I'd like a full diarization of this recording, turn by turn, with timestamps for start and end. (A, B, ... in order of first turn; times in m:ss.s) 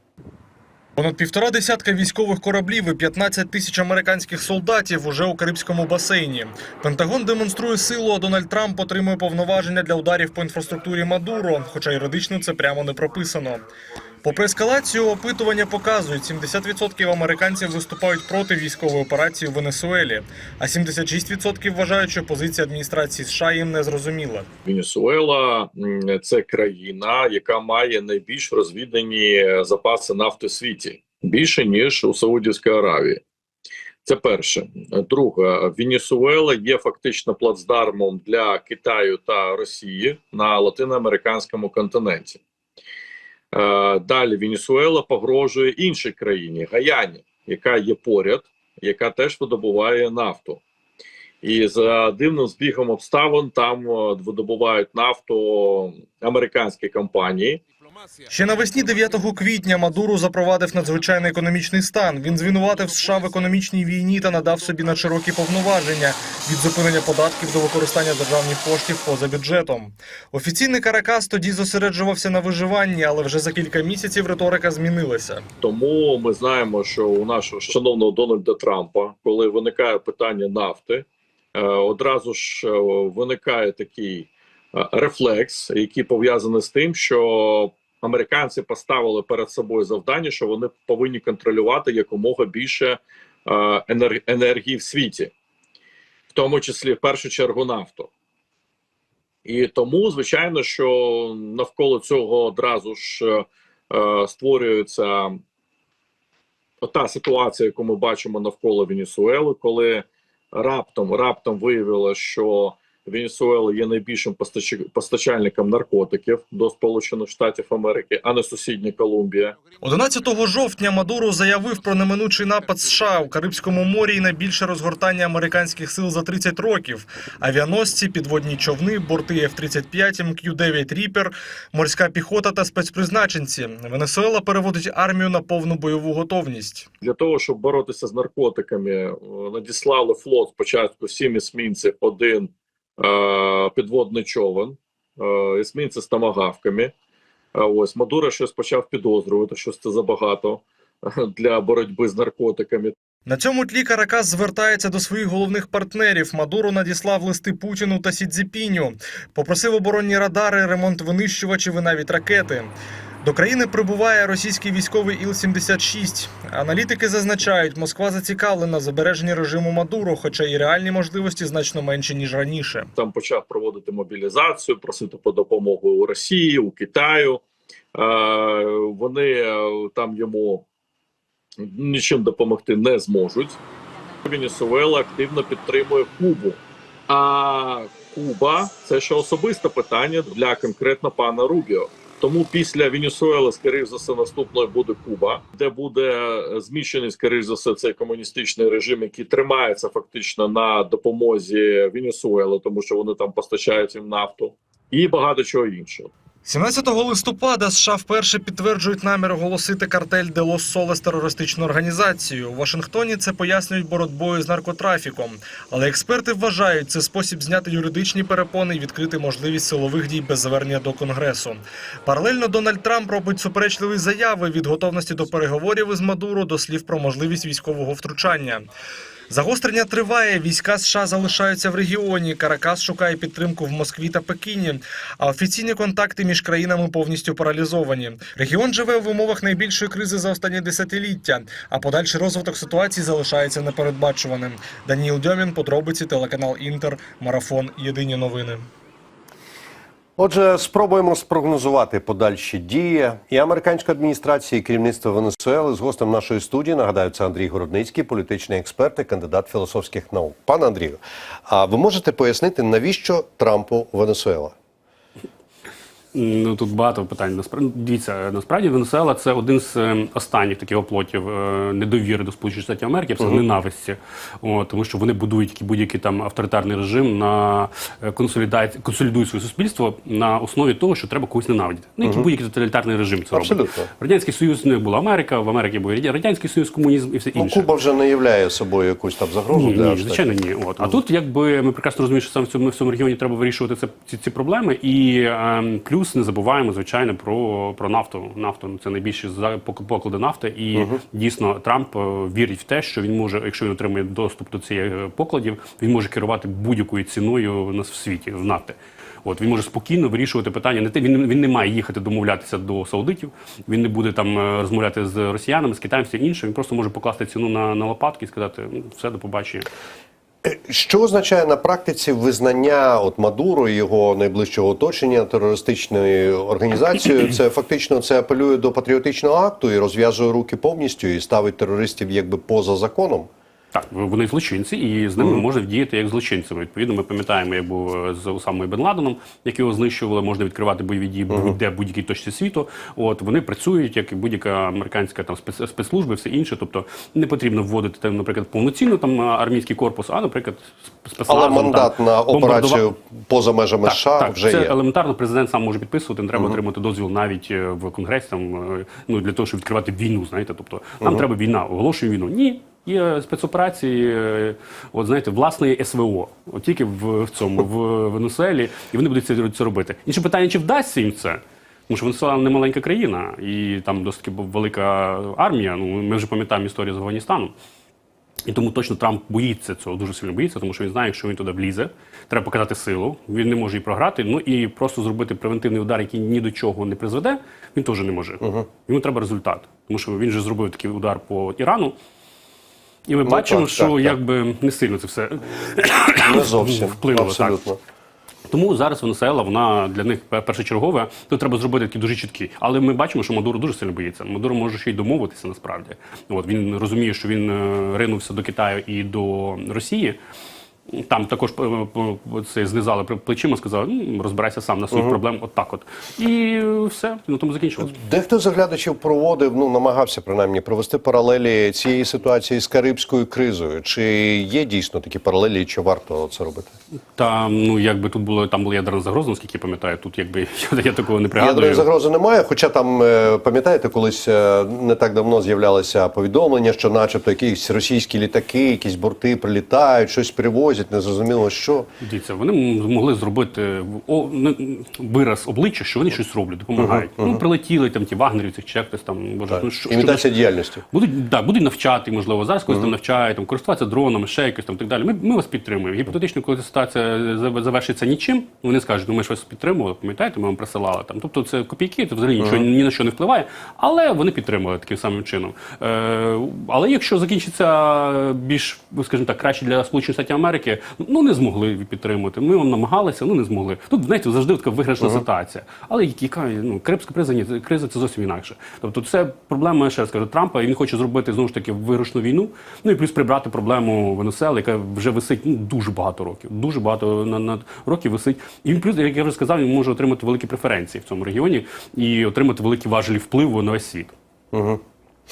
0:01.0-0:13.7 A
0:14.2-0:24.5 A
0:24.6-0:33.2 B
0:34.0-0:42.4 B
0:43.5-0:50.6 B
0:51.4-0:57.6 B
0:58.3-1:15.4 A
1:15.6-1:35.3 B
1:36.3-1:38.1 B
1:39.4-1:45.4 B
1:46.8-1:59.6 B
1:59.8-2:16.9 A
2:17.0-2:26.9 B
2:27.5-2:32.9 B
2:33.2-2:52.9 A
2:52.9-2:57.4 B
2:57.9-3:00.6 B
3:01.6-3:03.6 B
3:04.2-3:26.1 B
3:26.4-3:48.7 A
3:49.3-4:08.7 A
4:10.2-4:24.5 C
4:26.1-4:47.6 D
4:42.0-4:42.3 C
4:43.3-4:43.9 C
4:47.3-4:51.0 C
4:49.5-5:19.7 D
5:00.7-5:01.0 C
5:20.4-5:33.3 C
5:33.7-5:52.8 D
5:41.3-5:41.6 C
5:51.3-5:54.7 C
5:53.8-6:17.5 D
6:18.5-6:31.9 D
6:33.1-6:37.6 D
6:33.2-6:34.1 C
6:36.2-6:37.8 C
6:38.5-6:50.2 D
6:50.9-6:57.9 D
6:57.8-7:06.7 C
7:07.2-7:11.8 D
7:11.4-7:21.9 C
7:22.0-7:30.2 D
7:26.9-7:27.4 C
7:29.5-7:30.8 C
7:30.9-8:14.1 D
8:14.5-8:14.8 C